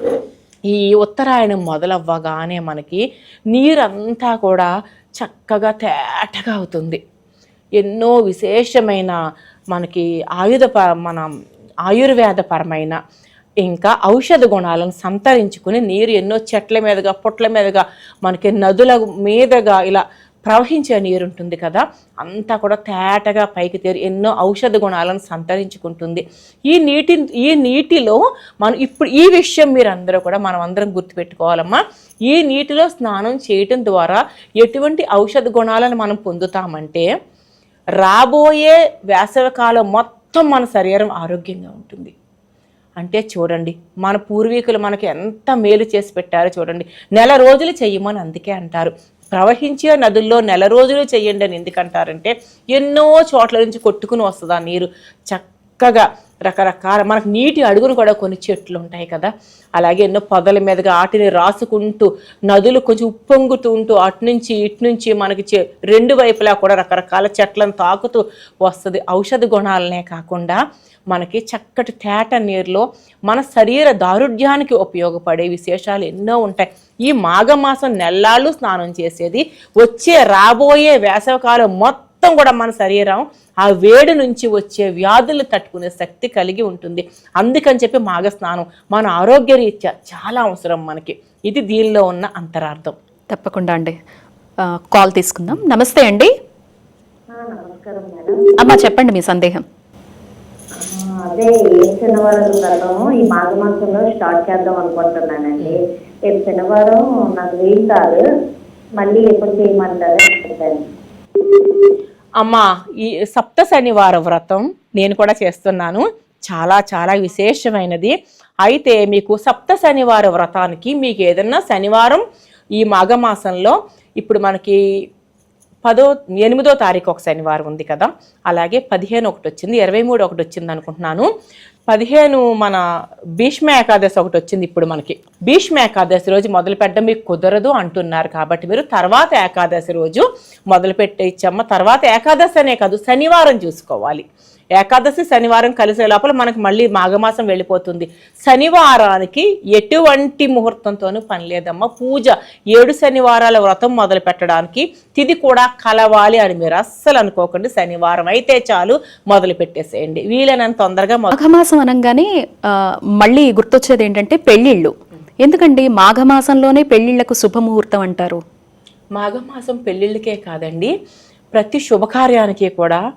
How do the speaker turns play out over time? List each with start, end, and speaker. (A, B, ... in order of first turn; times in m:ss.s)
0:00.7-0:07.0 A
0:07.8-0:09.2 A
0:09.7-0:11.3 A
0:11.9-0:13.0 A
0:13.6-0:37.1 A
0:38.0-0:42.1 A
0:43.0-1:10.6 A
1:11.1-1:33.0 A
1:33.3-1:34.0 B
1:34.6-1:36.3 B
1:37.3-1:38.4 C
1:38.6-1:39.6 B
1:40.8-1:48.2 C
1:49.0-1:50.9 C
1:52.4-1:52.7 A
1:53.3-2:02.2 A
2:02.8-2:04.8 A
2:05.8-2:11.3 A
2:11.9-2:12.8 A
2:13.4-2:24.2 A
2:24.8-2:41.3 A
2:41.3-2:48.4 B
2:49.2-2:50.9 A
2:51.5-2:53.0 A